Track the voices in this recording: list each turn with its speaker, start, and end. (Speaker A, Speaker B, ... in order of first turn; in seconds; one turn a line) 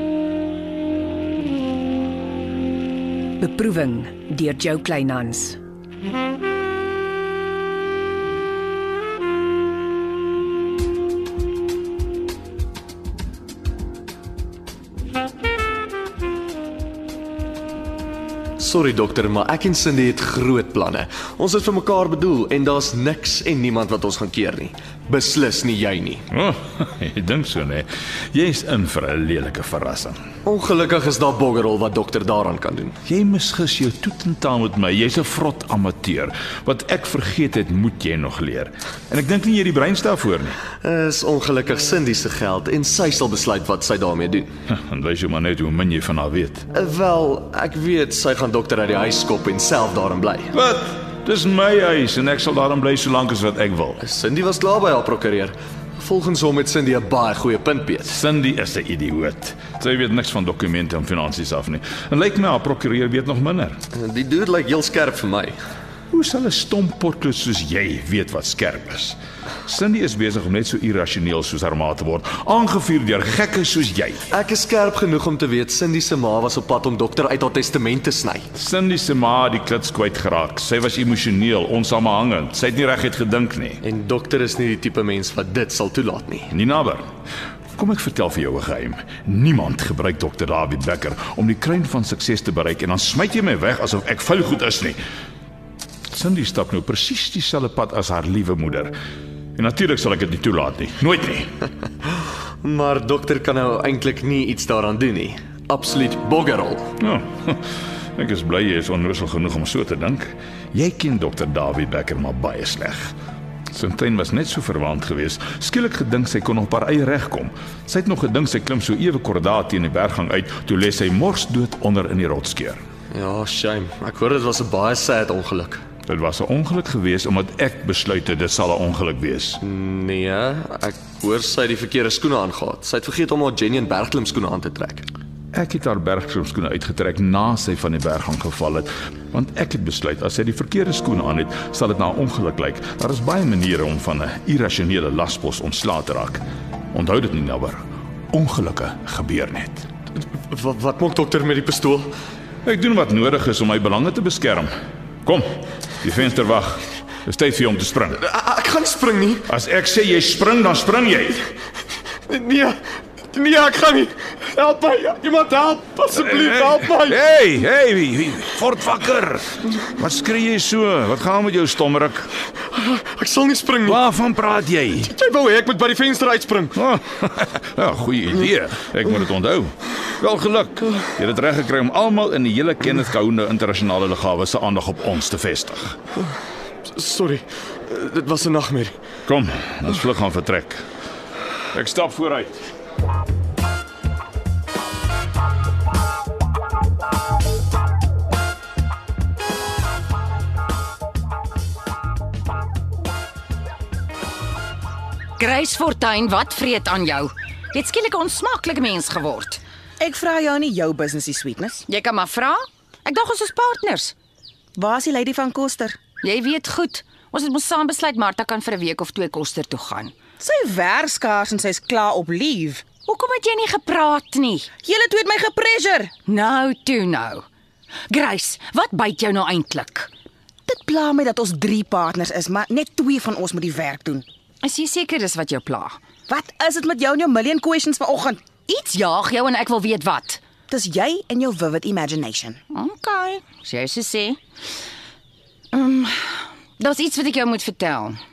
Speaker A: 3.4-5.6
Speaker B: 18.6-26.3
Speaker C: 26.3-30.2
Speaker B: 30.4-33.0
Speaker C: 33.1-40.6
Speaker B: 40.8-44.5
Speaker C: 44.7-46.7
Speaker B: 46.7-50.5
Speaker C: 50.5-54.0
Speaker B: 54.0-58.2
Speaker C: 58.1-63.8
Speaker B: 64.0-65.6
Speaker C: 66.1-74.2
Speaker B: 74.3-78.5
Speaker C: 78.5-83.8
Speaker B: 83.8-86.5
Speaker C: 86.5-87.0
Speaker C: 87.8-95.0
Speaker C: 96.1-98.9
Speaker C: 99.6-101.5
Speaker B: 102.6-106.9
Speaker C: 107.0-107.6
Speaker C: 108.2-113.1
Speaker C: 113.7-122.8
Speaker B: 123.1-125.8
Speaker C: 126.1-129.6
Speaker B: 129.6-135.1
Speaker C: 135.5-146.4
Speaker C: 146.9-149.9
Speaker B: 150.5-152.1
Speaker C: 152.7-154.7
Speaker C: 155.2-158.2
Speaker B: 158.2-159.5
Speaker C: 159.5-161.4
Speaker B: 162.3-162.8
Speaker B: 163.3-167.2
Speaker C: 166.1-172.3
Speaker B: 172.7-174.0
Speaker C: 173.8-175.1
Speaker B: 175.1-176.8
Speaker C: 176.8-186.0
Speaker B: 186.9-189.0
Speaker C: 189.3-190.8
Speaker C: 191.7-192.7
Speaker D: 205.4-209.6
Speaker E: 210.0-211.8
Speaker D: 211.9-214.2
Speaker E: 214.8-216.0
Speaker D: 216.2-220.1
Speaker E: 220.4-222.8
Speaker D: 223.1-224.7
Speaker E: 224.8-226.1
Speaker D: 226.3-227.4
Speaker D: 228.1-230.1
Speaker E: 230.7-234.2
Speaker D: 234.6-236.0
Speaker E: 236.3-238.4
Speaker D: 238.7-240.4
Speaker E: 240.7-242.6
Speaker D: 242.7-244.4
Speaker D: 245.7-248.2